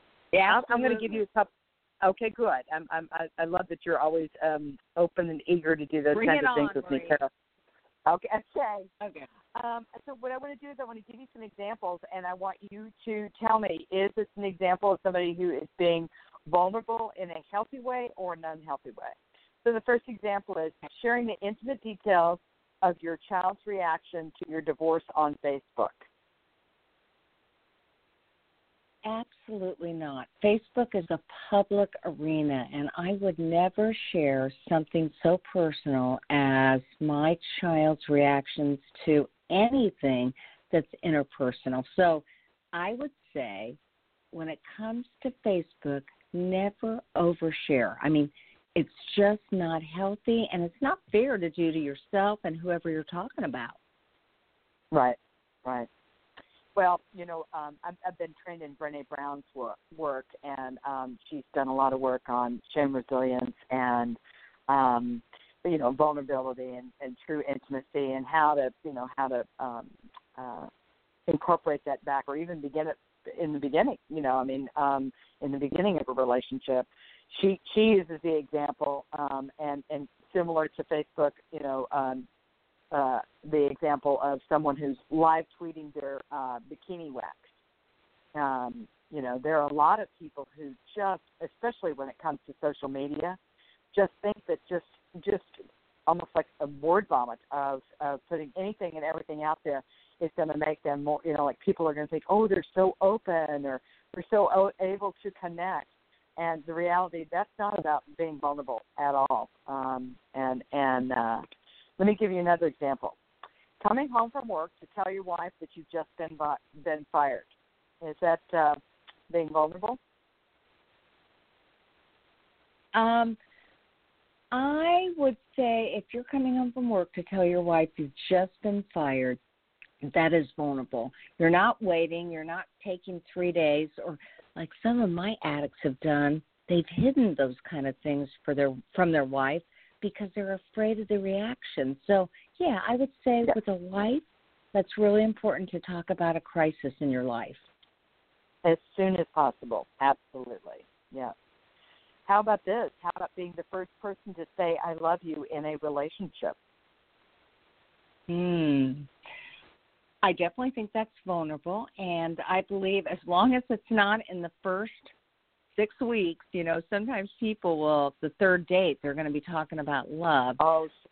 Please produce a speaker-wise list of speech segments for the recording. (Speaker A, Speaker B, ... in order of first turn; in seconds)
Speaker A: 0.3-1.2, 6.1-7.2, 9.0-9.3, 29.0-43.8, 44.3-53.8, 122.9-123.4, 124.5-129.4, 130.0-147.6, 158.3-159.1, 160.2-165.1, 165.8-170.6
Speaker B: 0.5-1.5, 2.0-7.3, 8.1-8.9, 9.6-26.1, 54.9-55.9, 56.8-64.2, 64.7-70.7, 71.3-82.3, 82.9-87.5, 88.3-93.4, 93.9-111.5, 112.0-113.2, 113.8-117.5, 118.0-120.0, 148.6-151.3, 152.3-156.6, 170.6-170.9